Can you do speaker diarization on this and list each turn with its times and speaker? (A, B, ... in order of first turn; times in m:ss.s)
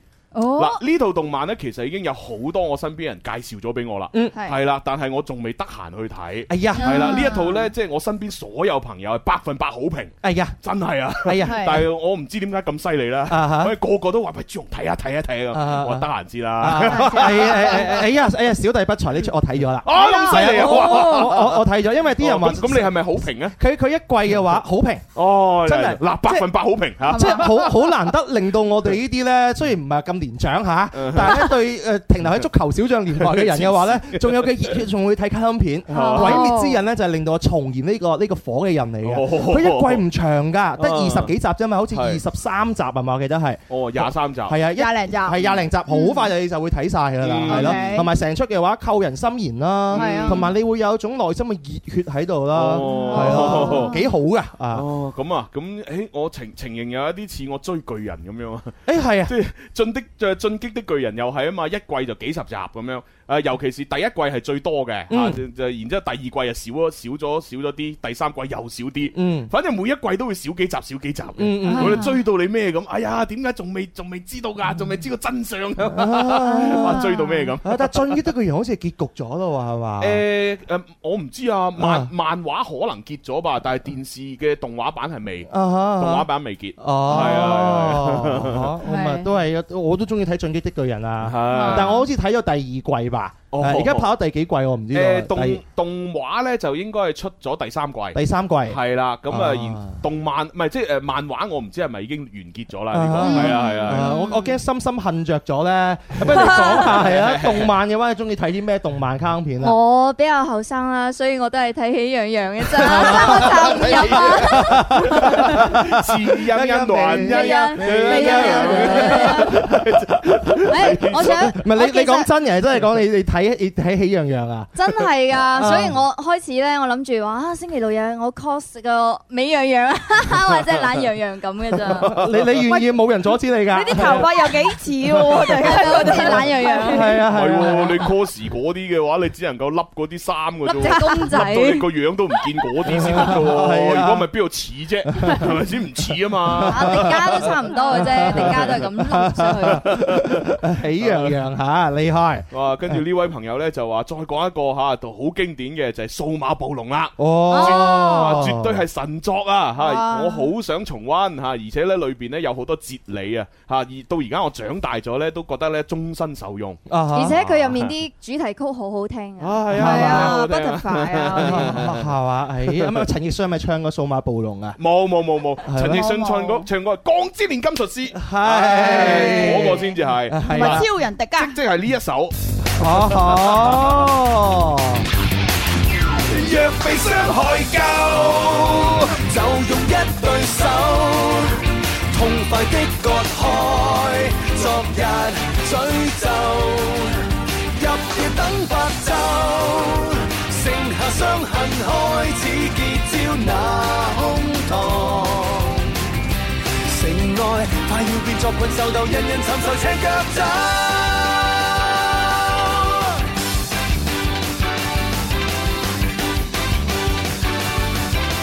0:00.3-0:00.8 A
0:00.6-0:18.1 B
0:06.5-0:07.3 C
0:06.7-0:07.7 A
0:10.2-0:10.6 C
0:11.2-0:11.8 C
0:11.4-0:11.8 A
0:13.3-0:13.7 C
0:15.5-0:25.1 C
0:16.8-0:17.8 A
0:19.8-0:23.6 B
0:19.9-0:21.2 A
0:25.1-0:28.0 B
0:25.6-0:26.5 C
0:27.0-0:54.8 C
0:27.1-0:27.6 A
0:30.9-0:31.5 B
0:33.2-0:34.8 B
0:35.9-0:36.5 B
0:35.9-0:36.8 A
0:39.0-0:40.0 B
0:40.8-0:41.3 B
0:41.9-0:42.2 B
0:43.7-0:44.6 B
0:44.8-0:46.3 A
0:47.2-0:48.1 B
0:47.4-0:48.1 A
0:49.9-0:50.5 B
0:49.9-0:50.5 A
0:52.5-0:54.0 B
0:52.8-0:54.0 A
0:54.7-1:18.2 B
0:58.8-0:59.3 C
1:05.1-1:05.4 C
1:09.1-1:09.5 C
1:11.4-1:12.0 C
1:11.7-1:12.2 A
1:15.8-1:17.0 C
1:16.6-1:17.5 A
1:17.6-1:20.2 C
1:20.0-1:28.7 B
1:21.8-1:22.1 C
1:25.5-1:35.6 C
1:28.8-1:29.3 A
1:31.2-1:32.0 B
1:31.5-1:32.0 A
1:33.5-1:34.1 B
1:34.9-1:44.1 B
1:38.1-1:38.8 C
1:39.3-1:40.0 C
1:42.9-1:49.8 C
1:43.3-1:44.3 D
1:43.5-1:44.5 A
1:46.3-1:47.7 B
1:49.6-1:54.9 D
1:52.7-2:00.6 C
1:52.8-2:01.5 B
1:57.2-1:59.6 D
1:59.0-1:59.3 A
2:00.7-2:02.3 D
2:01.2-2:04.7 C
2:04.8-2:12.2 D
2:05.6-2:06.0 C
2:11.8-2:12.5 B
2:12.0-2:14.3 C
2:13.7-2:17.1 A
2:13.9-2:17.1 D
2:16.8-2:18.0 C
2:17.3-2:27.5 B
2:20.6-2:21.9 D
2:20.8-2:21.6 A
2:22.9-2:24.3 C
2:26.4-2:33.0 C
2:26.6-2:29.9 D
2:27.7-2:28.1 A
2:28.2-2:28.9 B
2:29.8-2:31.4 B
2:32.5-2:46.8 B
2:37.2-2:38.8 C
2:37.5-2:38.3 D
2:39.8-2:40.5 A
2:46.9-2:47.4 C
2:47.1-2:51.4 D
2:47.4-2:47.9 B
2:49.4-2:52.0 B
2:49.7-2:50.3 C
2:49.8-2:51.6 A
2:51.4-2:54.8 C
2:52.7-2:53.0 B
2:54.8-3:04.1 B
2:55.6-2:56.1 C
2:56.1-2:56.6 A
2:58.1-3:00.8 C
2:58.8-2:59.8 A
3:00.4-3:01.6 A
3:02.8-3:05.0 C
3:06.3-3:25.9 E
3:26.8-3:33.2 E